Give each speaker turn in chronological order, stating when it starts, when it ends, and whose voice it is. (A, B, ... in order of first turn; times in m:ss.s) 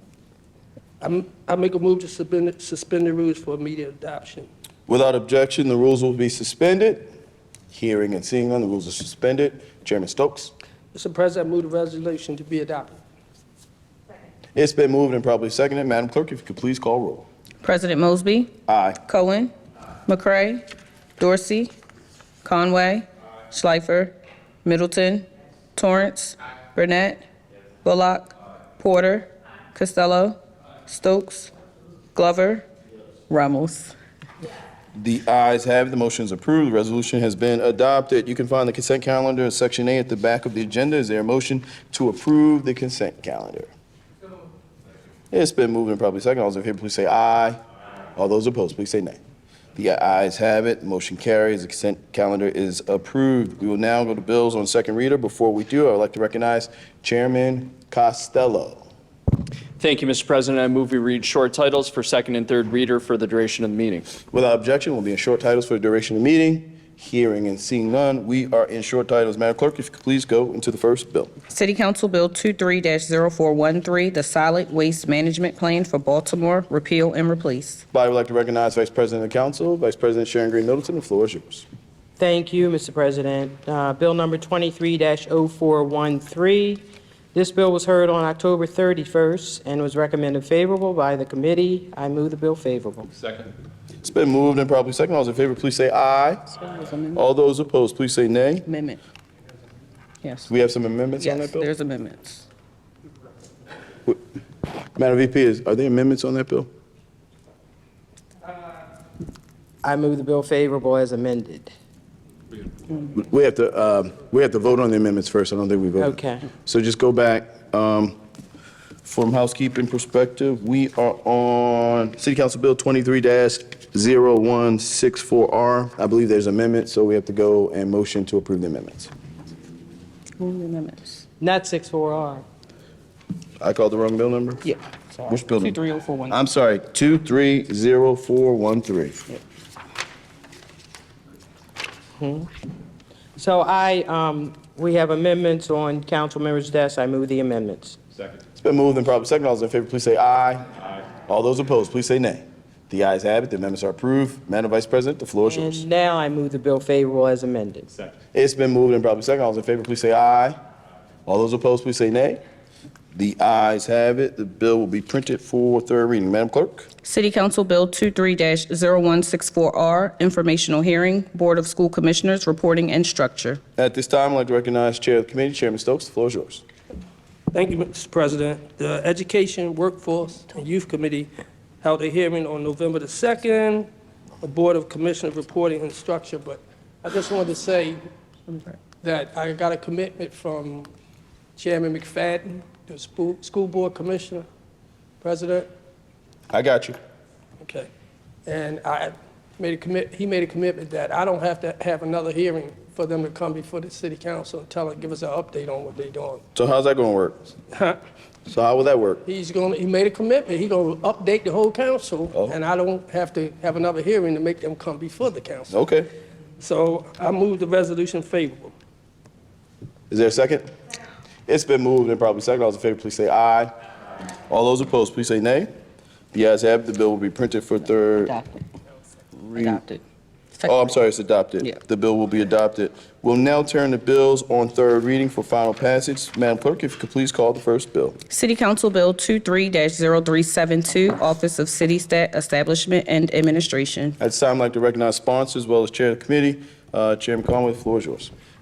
0:01.0-0:04.5 A
0:04.9-0:07.1 B
0:07.7-0:10.5 B
0:10.9-0:13.0 A
0:14.5-0:17.2 B
0:17.6-0:18.5 C
0:18.7-0:19.0 B
0:19.0-0:19.5 C
0:20.1-0:20.6 C
0:21.2-0:21.7 C
0:22.4-0:27.2 C
0:27.8-0:31.5 C
0:32.1-0:32.7 C
0:33.3-0:33.9 C
0:34.9-0:43.7 B
0:45.3-0:47.6 B
0:48.2-0:49.2 B
0:49.7-0:58.9 B
0:59.8-1:04.2 D
1:04.3-1:11.3 B
1:11.5-1:17.8 C
1:17.9-1:21.6 B
1:22.2-1:33.1 E
1:34.0-1:36.5 B
1:36.6-1:37.2 C
1:37.1-1:38.6 B
1:38.6-1:39.0 C
1:40.2-1:40.5 C
1:40.5-1:41.7 B
1:41.2-1:42.4 C
1:44.9-1:46.7 B
1:49.8-1:51.7 E
1:53.1-1:58.2 B
1:56.0-1:56.4 E
1:59.0-2:09.1 B
2:10.4-2:11.2 C
2:11.4-2:12.4 E
2:13.6-2:14.6 B
2:14.6-2:16.4 C
2:15.3-2:15.8 B
2:16.3-2:19.3 B
2:22.2-2:22.5 E
2:23.4-2:28.0 E
2:28.5-2:35.8 B
2:35.4-2:37.9 E
2:38.3-2:40.6 B
2:41.2-2:42.4 B
2:43.1-2:46.9 B
2:47.0-2:53.6 C
2:53.8-2:56.6 B
2:57.5-3:01.3 A
3:01.8-3:03.9 A
3:04.4-3:08.0 A
3:09.0-3:10.9 A
3:11.6-3:14.4 A
3:15.2-3:15.7 A
3:16.5-3:17.0 B
3:17.6-3:17.9 A
3:18.4-3:26.4 A
3:26.5-3:27.5 B
3:27.7-3:28.0 A
3:28.5-3:29.2 B
3:29.2-3:35.8 A
3:32.3-3:32.6 B
3:35.7-3:36.1 B
3:36.6-3:38.7 A
3:40.1-3:40.7 B
3:41.5-3:43.7 B
3:44.5-3:45.7 B
3:46.3-3:48.3 B
3:48.2-3:48.6 C
3:49.5-3:49.8 B
3:49.5-3:50.0 C
3:50.6-3:50.9 C
3:50.6-3:58.2 B
3:58.3-4:04.2 C
4:04.2-4:08.3 B